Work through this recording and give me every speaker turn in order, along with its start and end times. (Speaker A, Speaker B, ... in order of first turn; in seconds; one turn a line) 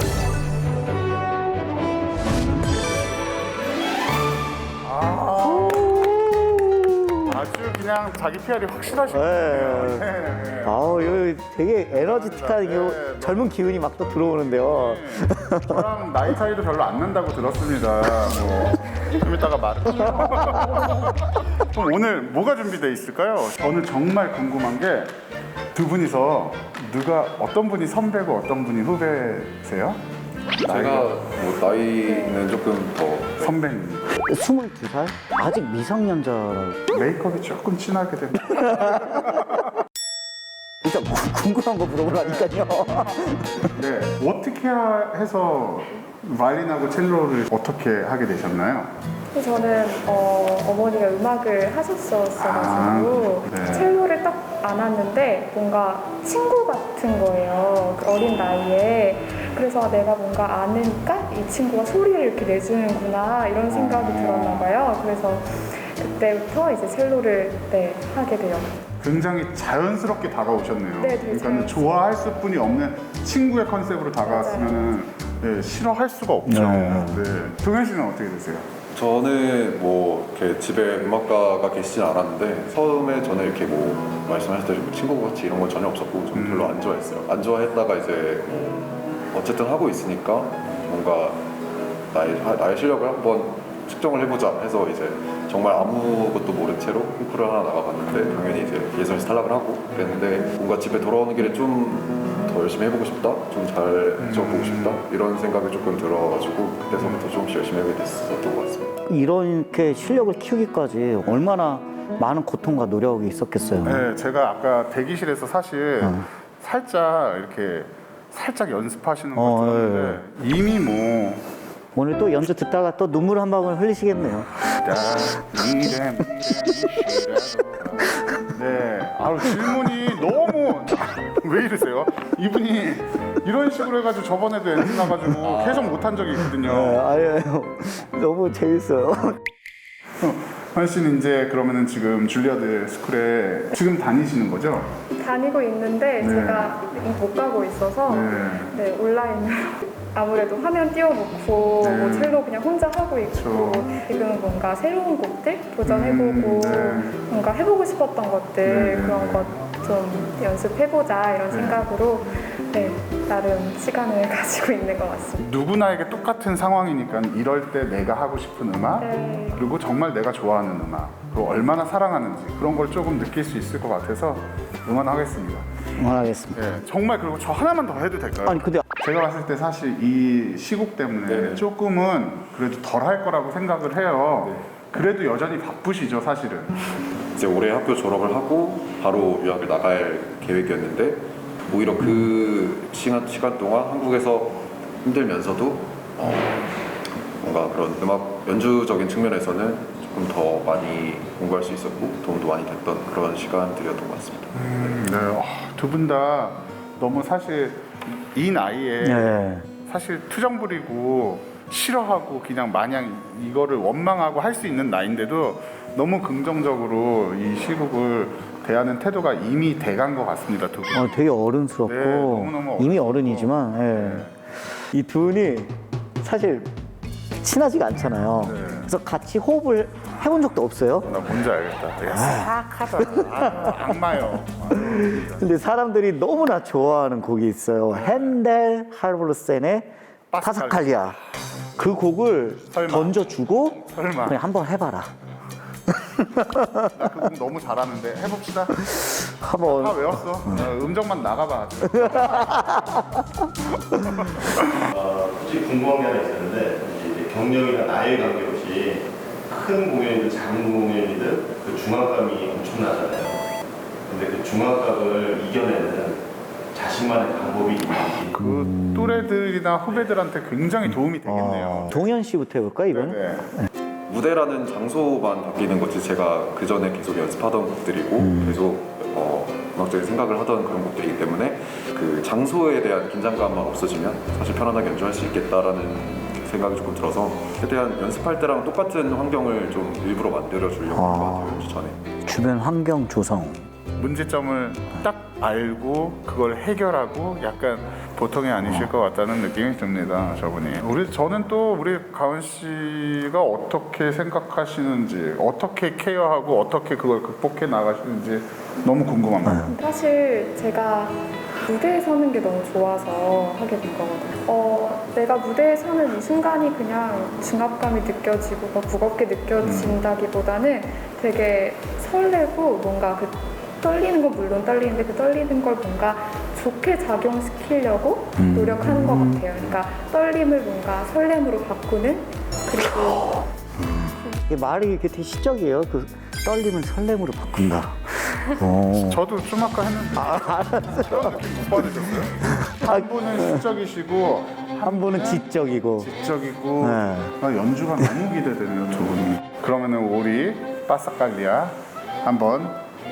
Speaker A: 4.8-6.0
Speaker B: 5.1-7.4
Speaker A: 7.3-11.3
Speaker B: 9.1-10.1
Speaker B: 10.6-15.9
Speaker A: 11.9-25.1
Speaker B: 20.0-21.0
Speaker A: 25.7-30.0
Speaker C: 30.6-33.6
Speaker A: 30.6-31.1
Speaker D: 32.0-32.4
Speaker A: 33.4-34.1
Speaker B: 34.2-36.8
Speaker A: 36.9-39.7
Speaker B: 40.8-43.6
Speaker A: 42.1-42.6
Speaker A: 43.7-48.9
Speaker D: 49.3-68.8
Speaker A: 52.4-53.9
Speaker A: 63.7-64.7
Speaker A: 69.0-78.7
Speaker D: 71.0-72.0
Speaker D: 74.2-75.0
Speaker B: 76.5-77.2
Speaker C: 78.9-88.8
Speaker A: 86.3-86.8
Speaker C: 89.3-91.5
Speaker C: 92.1-109.0
Speaker A: 104.2-105.0
Speaker B: 109.1-114.1
Speaker A: 113.8-121.5
Speaker B: 116.0-116.3
Speaker B: 119.3-120.2
Speaker B: 121.9-124.5
Speaker A: 124.7-137.1
Speaker B: 136.6-139.4
Speaker A: 140.2-144.9
Speaker D: 145.1-165.4
Speaker A: 146.2-146.7
Speaker A: 148.1-148.8
Speaker A: 151.8-152.4
Speaker A: 153.3-153.9
Speaker A: 155.8-157.1
Speaker A: 158.6-159.5
Speaker A: 161.5-161.8
Speaker A: 165.4-175.7
Speaker D: 168.9-169.6
Speaker B: 175.9-176.6
Speaker A: 176.6-186.9
Speaker B: 178.4-178.8
Speaker C: 181.2-181.6
Speaker C: 187.4-196.7
Speaker C: 197.4-204.5
Speaker A: 204.6-221.1
Speaker B: 209.0-209.7
Speaker B: 220.9-226.7
Speaker A: 221.8-224.3
Speaker B: 227.4-231.2
Speaker A: 228.4-228.9
Speaker A: 231.1-235.5
Speaker B: 232.1-234.0
Speaker B: 234.7-241.2
Speaker A: 237.9-238.4
Speaker A: 240.3-241.0
Speaker B: 241.8-245.1
Speaker A: 242.6-244.4
Speaker B: 245.9-246.9
Speaker A: 246.9-248.8
Speaker B: 248.9-250.7
Speaker A: 249.7-252.8
Speaker B: 251.9-253.2
Speaker A: 253.9-254.6
Speaker E: 254.9-263.4
Speaker E: 264.1-268.4
Speaker B: 268.4-269.3
Speaker A: 268.4-272.1
Speaker B: 271.2-273.7
Speaker A: 272.9-273.5
Speaker C: 274.1-292.0
Speaker B: 278.2-278.6
Speaker B: 290.9-291.7
Speaker B: 292.2-293.7
Speaker A: 294.0-309.7
Speaker B: 298.6-298.9
Speaker B: 309.4-309.7
Speaker D: 309.7-333.4
Speaker A: 319.6-320.0
Speaker B: 328.4-329.5
Speaker B: 333.0-339.2
Speaker A: 338.9-345.4
Speaker B: 340.1-341.9
Speaker B: 342.5-343.7
Speaker B: 344.8-346.1
Speaker A: 346.0-352.8
Speaker B: 346.8-347.4